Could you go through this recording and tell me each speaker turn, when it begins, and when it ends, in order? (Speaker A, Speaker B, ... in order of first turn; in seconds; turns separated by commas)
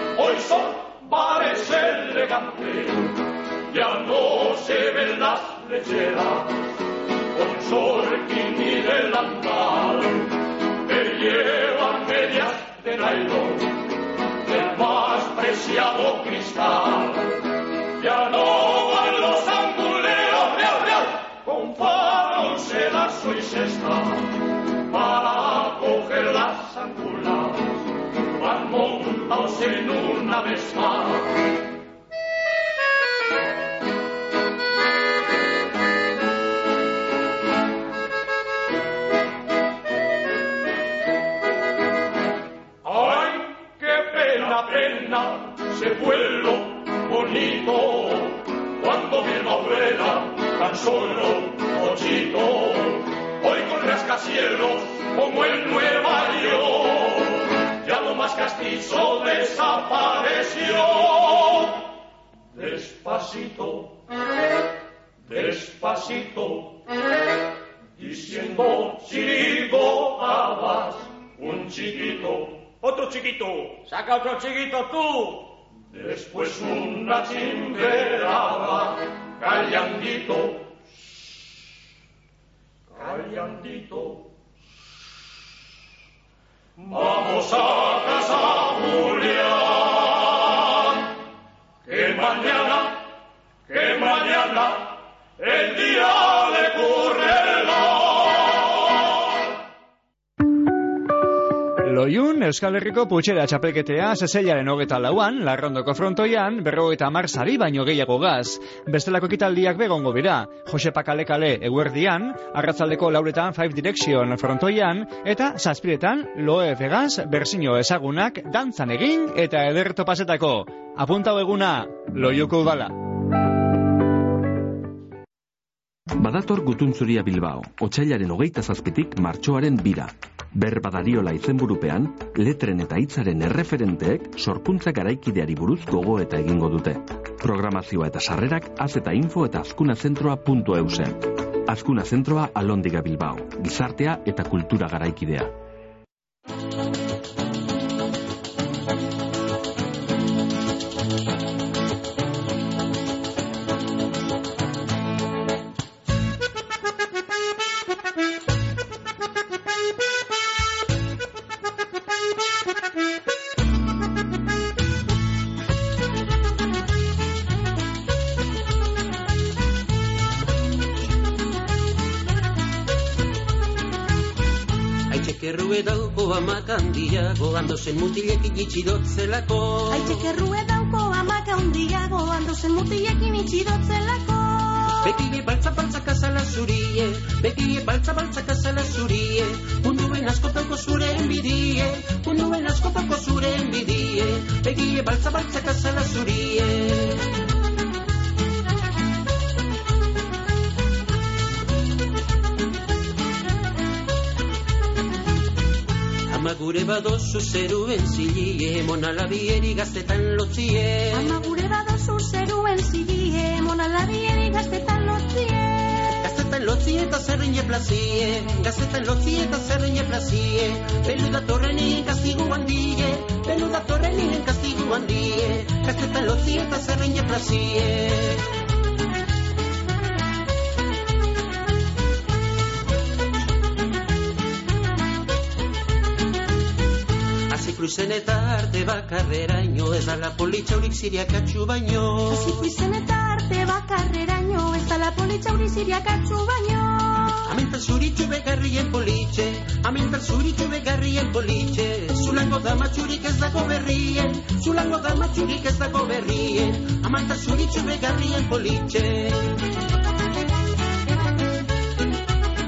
Speaker A: 0.2-3.0, Speaker A: 3.7-6.5, Speaker A: 7.4-10.2, Speaker A: 10.9-13.7, Speaker A: 14.5-17.2, Speaker A: 18.0-24.1, Speaker A: 24.9-27.5, Speaker A: 28.4-31.1, Speaker A: 42.9-57.2, Speaker A: 57.8-61.7, Speaker A: 62.6-63.9, Speaker A: 65.3-66.7, Speaker A: 68.0-72.5, Speaker A: 76.0-78.8, Speaker A: 79.4-80.5, Speaker A: 83.3-84.0, Speaker A: 86.9-89.6, Speaker A: 91.9-93.0, Speaker A: 93.7-94.9, Speaker A: 95.4-97.8, Speaker B: 101.8-123.0, Speaker C: 126.2-145.5, Speaker D: 175.1-180.1, Speaker E: 179.9-185.1, Speaker D: 185.0-197.2, Speaker D: 206.3-211.3, Speaker E: 211.1-216.2, Speaker D: 216.2-228.4, Speaker D: 237.5-242.5, Speaker E: 242.3-247.4, Speaker D: 247.5-259.5